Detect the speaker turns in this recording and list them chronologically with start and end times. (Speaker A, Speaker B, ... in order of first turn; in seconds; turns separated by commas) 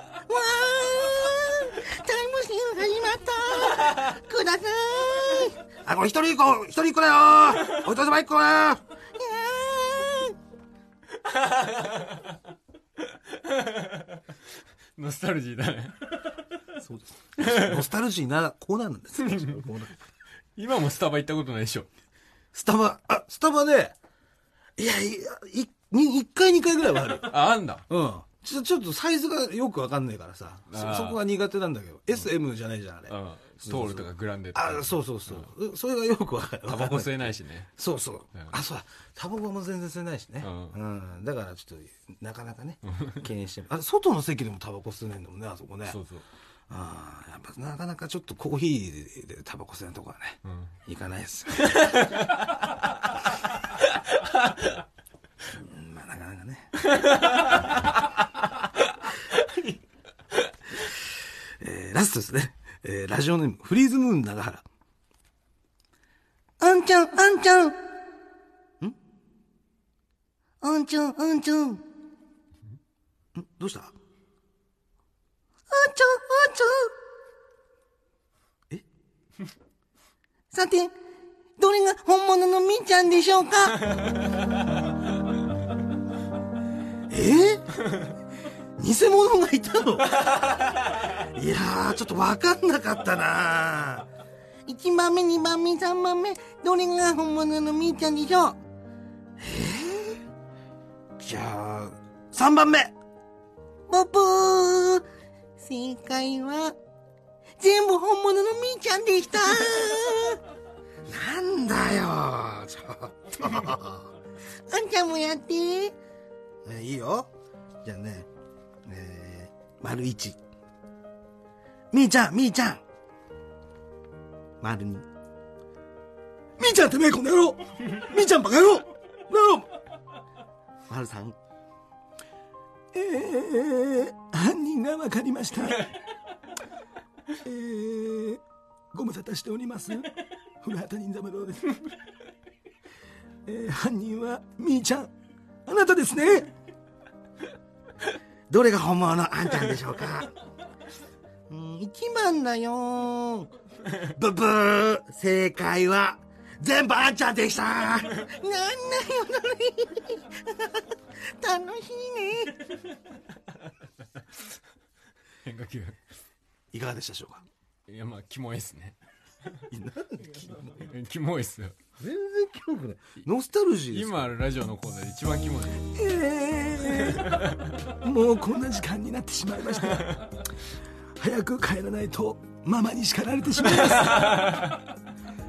Speaker A: 0.3-5.6, Speaker B: 5.8-8.8, Speaker A: 9.1-10.3, Speaker C: 11.2-12.4, Speaker C: 13.0-14.2, Speaker C: 14.9-16.2, Speaker B: 16.8-19.9, Speaker C: 17.4-17.8, Speaker C: 19.2-19.5, Speaker C: 20.6-21.9, Speaker B: 22.5-23.9, Speaker B: 24.8-27.3, Speaker C: 27.2-27.8, Speaker B: 27.9-46.0, Speaker C: 30.7-31.2, Speaker C: 33.1-35.5, Speaker C: 36.7-37.7, Speaker C: 40.4-40.7, Speaker C: 45.9-46.2, Speaker B: 46.7-51.9, Speaker C: 50.4-50.7, Speaker C: 51.6-52.8, Speaker C: 53.8-54.6, Speaker B: 55.5-56.7, Speaker C: 56.8-58.0, Speaker C: 59.3-59.8, Speaker B: 61.6-64.6, Speaker A: 66.6-67.8, Speaker A: 70.6-71.8, Speaker B: 73.3-73.9, Speaker A: 75.7-76.9, Speaker A: 80.5-80.9, Speaker A: 81.6-83.8, Speaker B: 87.1-87.8, Speaker B: 88.8-90.2, Speaker C: 90.3-90.6, Speaker B: 91.1-94.1, Speaker A: 94.7-98.6, Speaker B: 99.4-100.2, Speaker B: 101.2-102.9, Speaker A: 103.9-105.0, Speaker A: 105.6-106.8, Speaker A: 107.6-110.4, Speaker B: 111.0-114.1, Speaker A: 114.7-115.9, Speaker B: 116.6-117.3, Speaker B: 117.8-118.3, Speaker B: 118.8-120.4, Speaker B: 121.9-122.8, Speaker B: 124.6-125.1, Speaker B: 126.6-129.7, Speaker B: 130.9-131.4, Speaker B: 132.9-136.0, Speaker B: 137.4-138.4, Speaker B: 138.9-141.9, Speaker B: 143.4-145.1, Speaker B: 145.7-146.5, Speaker B: 148.5-150.3, Speaker A: 151.5-153.5, Speaker B: 153.9-158.2, Speaker A: 155.4-155.7, Speaker A: 158.0-162.8, Speaker C: 165.4-166.0, Speaker B: 166.7-167.4, Speaker C: 167.9-168.9, Speaker B: 169.7-170.9, Speaker C: 170.8-171.8, Speaker B: 172.0-174.2, Speaker C: 173.9-175.9, Speaker B: 175.9-180.4, Speaker C: 176.8-177.8, Speaker B: 181.2-184.8, Speaker C: 184.0-184.8